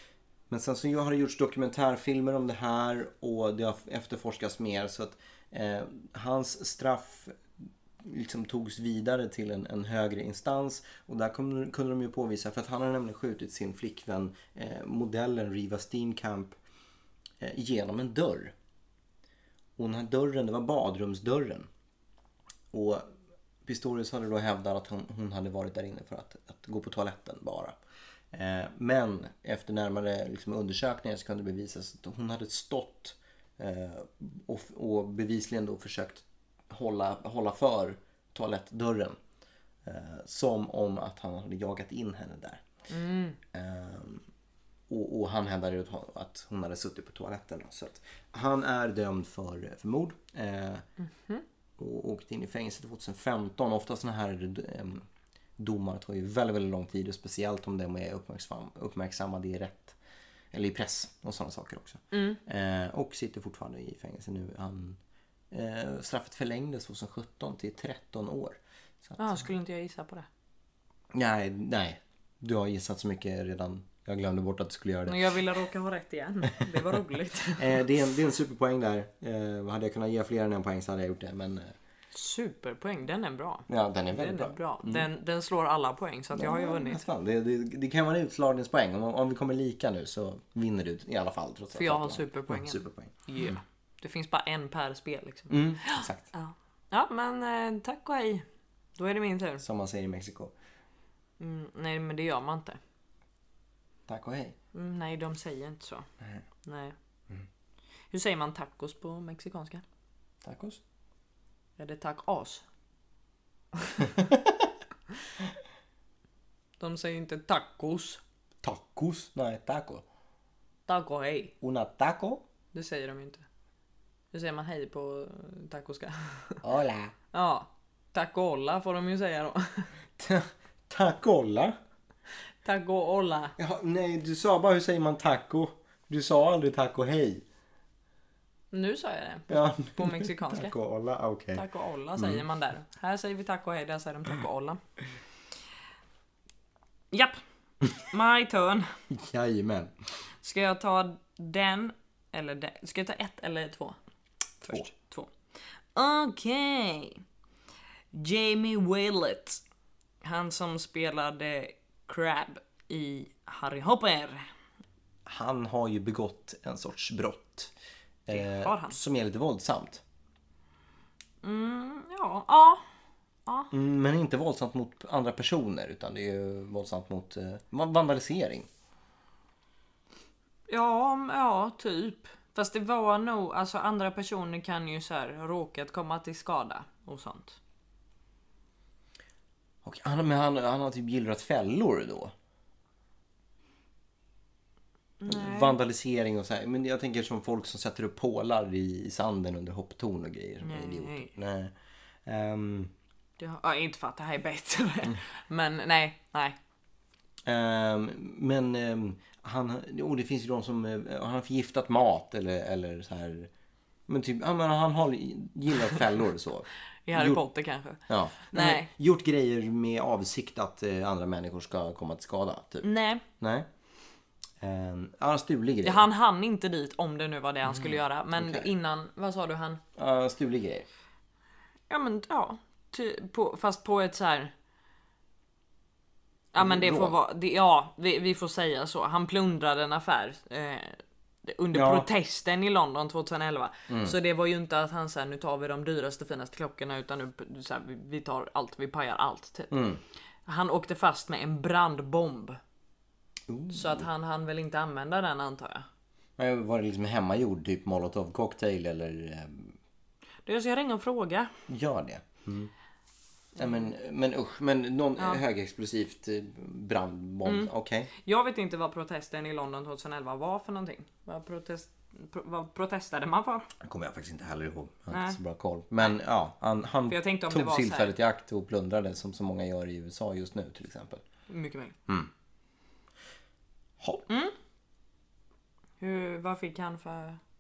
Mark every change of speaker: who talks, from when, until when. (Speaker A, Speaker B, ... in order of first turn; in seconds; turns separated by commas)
Speaker A: 0.5-7.4, Speaker A: 8.0-16.6, Speaker A: 17.4-18.5, Speaker A: 19.8-21.7, Speaker A: 22.7-23.1, Speaker A: 23.6-27.7, Speaker A: 28.3-39.2, Speaker A: 39.8-42.6, Speaker B: 42.9-43.4, Speaker A: 43.5-44.2, Speaker A: 44.9-50.9, Speaker B: 51.1-51.4, Speaker A: 51.8-55.1, Speaker A: 55.6-60.0, Speaker A: 60.5-65.0, Speaker B: 62.1-62.4, Speaker A: 65.5-69.4, Speaker B: 69.2-70.3, Speaker A: 71.1-75.3, Speaker B: 75.1-77.8, Speaker A: 77.6-81.7, Speaker B: 82.1-87.0, Speaker A: 83.7-85.1, Speaker A: 86.3-93.6, Speaker B: 91.8-98.5, Speaker A: 95.5-96.3, Speaker B: 99.0-99.6, Speaker A: 99.6-100.5, Speaker B: 101.4-102.8, Speaker A: 104.1-104.6, Speaker B: 104.7-106.1, Speaker B: 106.6-107.0, Speaker B: 108.1-109.8, Speaker A: 110.4-110.8, Speaker B: 111.8-112.6, Speaker B: 113.8-114.2, Speaker A: 114.2-114.7, Speaker B: 116.8-118.2, Speaker A: 118.6-120.0, Speaker B: 120.9-121.5, Speaker A: 121.6-122.4, Speaker B: 122.7-123.4, Speaker B: 124.3-126.6, Speaker A: 126.6-127.1, Speaker B: 127.3-129.9, Speaker A: 130.2-131.8, Speaker B: 132.6-133.6, Speaker A: 133.6-137.4, Speaker B: 138.7-140.7, Speaker A: 139.5-141.6, Speaker B: 141.5-144.8, Speaker A: 142.2-142.4, Speaker B: 147.1-148.9, Speaker A: 149.1-149.9, Speaker B: 150.4-154.0, Speaker B: 154.6-155.3, Speaker B: 155.9-157.2, Speaker B: 158.1-159.6, Speaker B: 160.2-164.5, Speaker A: 165.3-167.7, Speaker A: 168.3-170.0, Speaker B: 168.3-169.0, Speaker B: 171.4-172.8, Speaker B: 173.5-173.7, Speaker A: 173.7-178.7, Speaker B: 180.7-187.6, Speaker A: 189.8-192.3, Speaker B: 195.2-195.8, Speaker A: 195.3-201.7, Speaker B: 200.6-201.3, Speaker A: 202.3-202.9, Speaker B: 203.4-206.6, Speaker A: 207.4-213.5, Speaker A: 214.1-217.4, Speaker B: 217.1-218.9, Speaker A: 218.1-222.9, Speaker B: 222.8-223.2, Speaker A: 223.4-223.7, Speaker A: 224.6-226.1, Speaker B: 225.8-229.8, Speaker A: 227.7-228.7, Speaker A: 230.0-230.9, Speaker B: 231.9-234.5, Speaker B: 236.5-249.8, Speaker A: 236.6-237.2, Speaker A: 241.7-242.1, Speaker A: 243.9-244.2, Speaker A: 249.7-250.0, Speaker B: 250.5-252.6, Speaker A: 253.5-254.1, Speaker B: 253.7-255.9, Speaker A: 256.4-259.8, Speaker B: 260.5-261.5, Speaker A: 261.7-262.7, Speaker A: 263.6-268.1, Speaker B: 267.4-273.7, Speaker A: 273.8-281.2, Speaker B: 275.1-275.4, Speaker B: 277.1-278.1, Speaker B: 281.5-282.0, Speaker A: 284.0-284.3, Speaker B: 284.3-284.5, Speaker B: 286.0-287.4